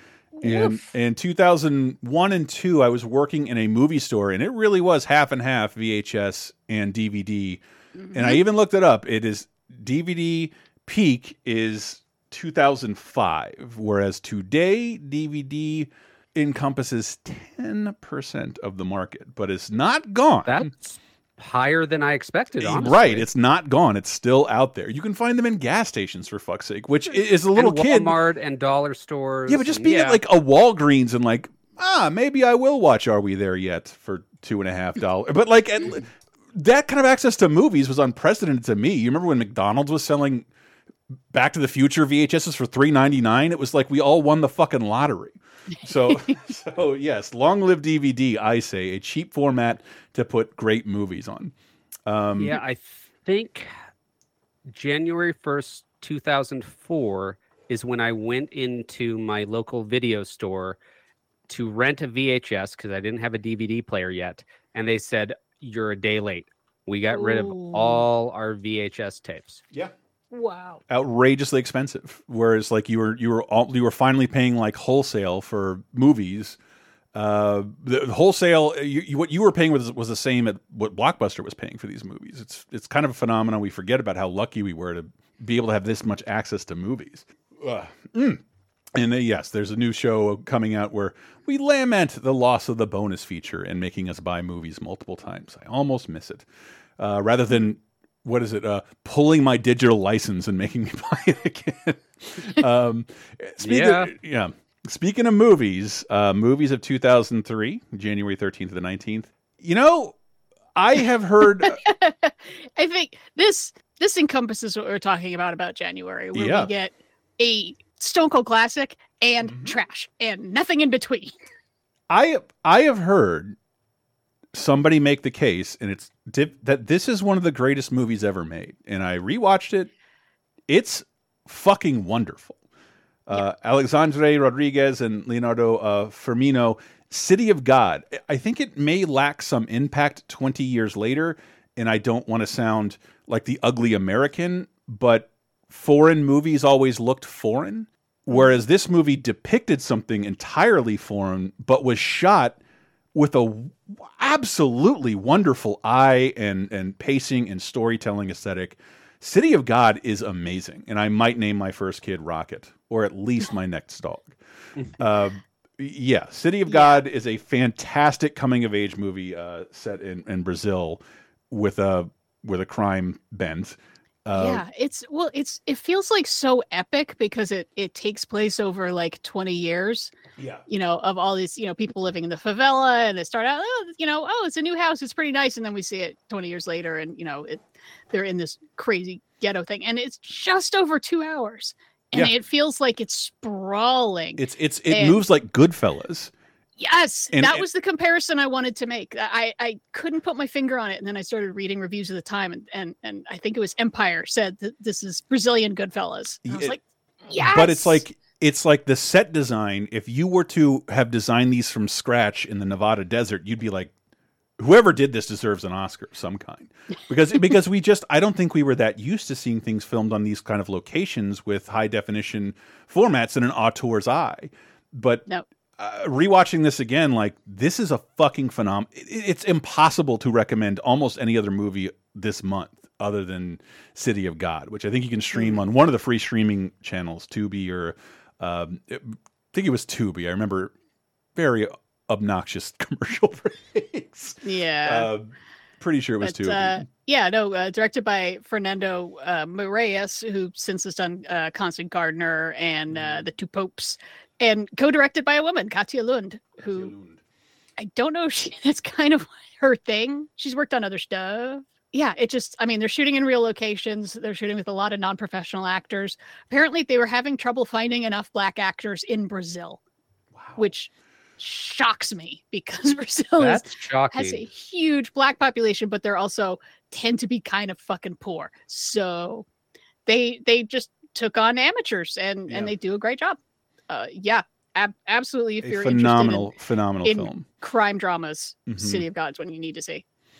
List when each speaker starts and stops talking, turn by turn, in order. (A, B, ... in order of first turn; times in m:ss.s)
0:00.4-0:00.9 A
0:00.4-0:20.6 B
0:08.0-0:08.4 A
0:20.5-0:23.3 C
0:22.6-0:28.2 B
0:27.5-0:30.2 C
0:29.5-0:40.5 B
0:41.3-0:51.5 B
0:46.1-0:46.3 A
0:52.1-0:52.6 B
0:52.4-0:53.7 C
0:54.7-1:00.8 C
1:01.5-1:09.6 C
1:07.1-1:08.1 A
1:10.3-1:10.8 A
1:10.9-1:16.6 B
1:17.1-1:28.4 B
1:29.0-1:36.5 B
1:37.0-1:50.2 B
1:43.6-1:44.1 C
1:50.8-1:51.8 B
1:51.6-2:01.4 A
1:56.3-1:56.7 B
1:59.4-1:59.8 B
2:02.1-2:03.6 B
2:04.5-2:09.9 B
2:10.7-2:12.6 B
2:13.3-2:32.6 B
2:33.1-2:44.4 B
2:45.0-2:54.6 B
2:46.7-2:47.0 A
2:54.3-3:00.1 A
3:00.4-3:00.6 B
3:00.7-3:15.2 A
3:14.4-3:16.3 B
3:16.8-3:28.0 A
3:17.3-3:17.7 B
3:26.5-3:26.8 B
3:27.4-3:33.9 B
3:34.6-4:00.7 B
3:55.3-3:55.6 A
4:01.4-4:06.9 B
4:04.4-4:05.1 A
4:06.2-4:16.9 A
4:12.9-4:13.3 B
4:16.6-4:17.2 B
4:17.8-4:29.8 A
4:30.3-4:30.7 B
4:30.6-4:39.5 A
4:33.4-4:34.4 C
4:40.0-4:46.5 A
4:42.5-4:42.7 B
4:45.6-4:47.5 B
4:47.0-4:50.0 A
4:48.7-4:49.0 B